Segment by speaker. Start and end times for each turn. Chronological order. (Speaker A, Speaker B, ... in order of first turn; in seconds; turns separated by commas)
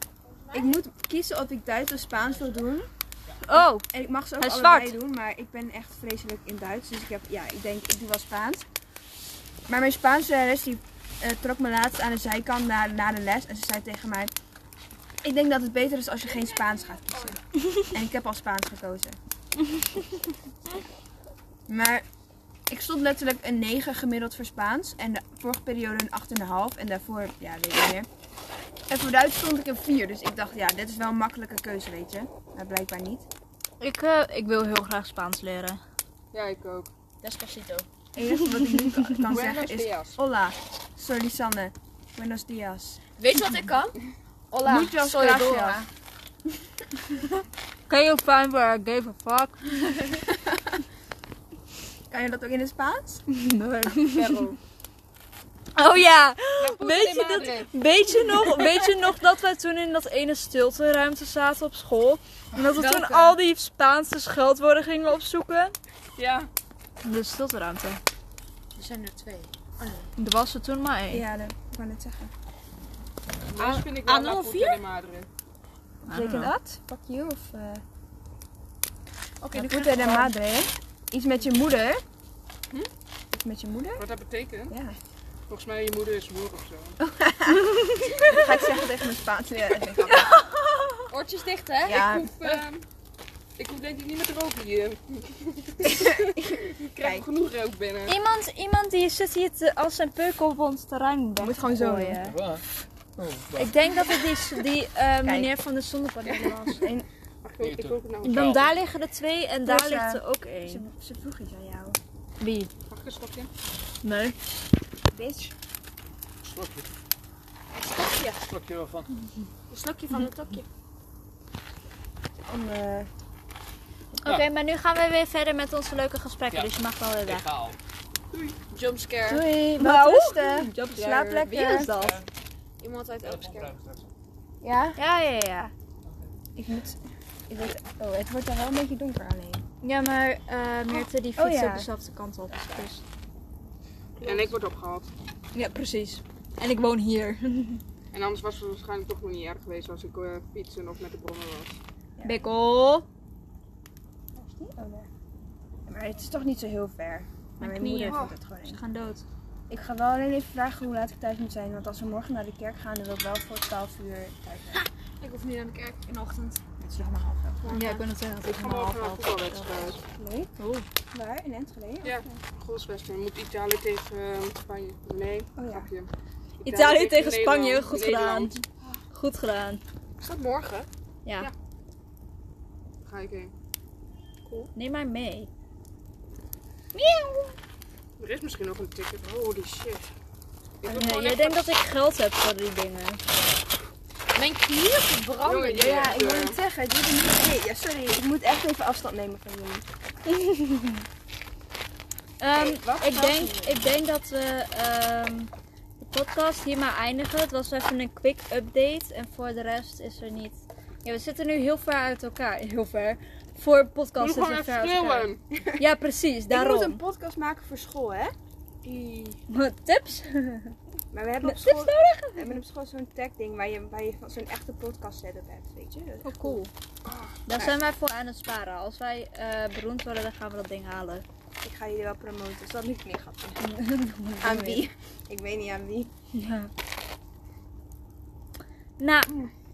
Speaker A: 0.5-2.9, Speaker B: 3.4-3.9, Speaker A: 3.5-8.6, Speaker B: 4.4-5.0, Speaker A: 9.7-14.3, Speaker A: 15.2-19.2, Speaker A: 21.7-22.0, Speaker A: 22.7-28.1, Speaker A: 28.9-33.3, Speaker B: 33.8-35.8, Speaker C: 36.3-36.9, Speaker D: 37.2-37.9, Speaker A: 38.1-43.0, Speaker B: 39.0-39.3, Speaker C: 39.3-40.0, Speaker D: 39.3-40.1, Speaker D: 43.2-44.0, Speaker D: 44.5-45.9, Speaker A: 44.6-45.9, Speaker B: 47.9-50.1, Speaker A: 52.1-53.2, Speaker B: 53.3-54.3, Speaker C: 54.1-54.6, Speaker B: 55.8-65.7, Speaker C: 56.6-57.7, Speaker D: 62.7-63.4, Speaker C: 66.2-66.5, Speaker B: 67.0-68.0, Speaker D: 68.7-70.1, Speaker B: 70.2-71.3, Speaker A: 71.1-72.3, Speaker C: 73.5-75.3, Speaker D: 73.5-74.8, Speaker A: 76.0-77.8, Speaker B: 76.1-76.5, Speaker D: 79.4-80.3, Speaker A: 79.5-82.0, Speaker A: 83.3-84.0, Speaker C: 84.0-84.8, Speaker A: 84.7-85.0, Speaker C: 85.5-87.0, Speaker A: 87.0-90.3, Speaker B: 87.7-88.3, Speaker B: 90.1-91.0, Speaker D: 91.1-92.0, Speaker A: 91.8-92.3, Speaker C: 91.9-92.8, Speaker C: 93.6-98.2, Speaker A: 95.8-97.2, Speaker B: 98.1-102.3, Speaker A: 101.4-102.2, Speaker E: 102.2-102.6, Speaker E: 103.2-103.7, Speaker B: 103.6-106.8, Speaker A: 105.2-105.5, Speaker C: 106.2-106.6, Speaker A: 106.7-107.0, Speaker C: 107.4-108.4, Speaker E: 107.6-108.7, Speaker B: 108.2-110.9, Speaker A: 109.6-112.0, Speaker B: 112.4-112.7, Speaker C: 112.9-113.5, Speaker B: 114.0-114.4, Speaker A: 115.1-115.5, Speaker E: 116.4-116.9, Speaker D: 117.7-118.4, Speaker E: 118.3-119.1, Speaker D: 119.7-120.6, Speaker A: 122.5-123.1, Speaker B: 124.2-127.5, Speaker E: 127.2-127.8, Speaker D: 128.3-129.4, Speaker A: 129.2-131.9, Speaker B: 129.7-132.2, Speaker E: 131.9-132.2, Speaker D: 132.8-133.7, Speaker E: 133.2-134.1, Speaker A: 134.6-135.0, Speaker B: 135.0-135.7, Speaker A: 136.6-137.0, Speaker A: 137.5-139.6, Speaker B: 139.8-143.0, Speaker A: 140.9-141.9, Speaker D: 144.2-144.5, Speaker C: 144.2-145.1, Speaker B: 145.5-147.8, Speaker C: 148.1-151.8, Speaker B: 152.2-153.1, Speaker A: 154.4-155.1, Speaker A: 155.9-158.8, Speaker B: 157.6-159.2, Speaker A: 159.7-168.0, Speaker B: 167.7-169.9, Speaker C: 168.4-170.0, Speaker A: 170.0-170.5, Speaker B: 170.6-170.8, Speaker A: 171.1-172.3, Speaker C: 172.0-178.5, Speaker A: 175.6-175.9, Speaker B: 176.6-179.8, Speaker D: 180.2-180.9, Speaker B: 181.2-181.5, Speaker C: 183.0-183.5, Speaker B: 184.7-185.5, Speaker D: 186.9-187.5, Speaker C: 188.2-190.1, Speaker C: 190.8-191.7, Speaker A: 190.8-191.1, Speaker B: 190.9-193.2, Speaker D: 194.3-196.2, Speaker C: 195.4-196.6, Speaker A: 195.8-199.8, Speaker B: 200.3-201.0, Speaker B: 202.4-217.0, Speaker D: 202.6-203.8, Speaker C: 214.2-215.4, Speaker A: 216.5-218.3, Speaker D: 218.8-219.4, Speaker B: 219.5-220.7, Speaker A: 221.1-227.8, Speaker B: 221.4-222.6, Speaker B: 226.2-226.7, Speaker B: 227.5-231.2, Speaker A: 231.6-233.6, Speaker B: 233.6-234.9, Speaker A: 234.4-236.1, Speaker B: 236.3-236.7, Speaker B: 239.0-239.3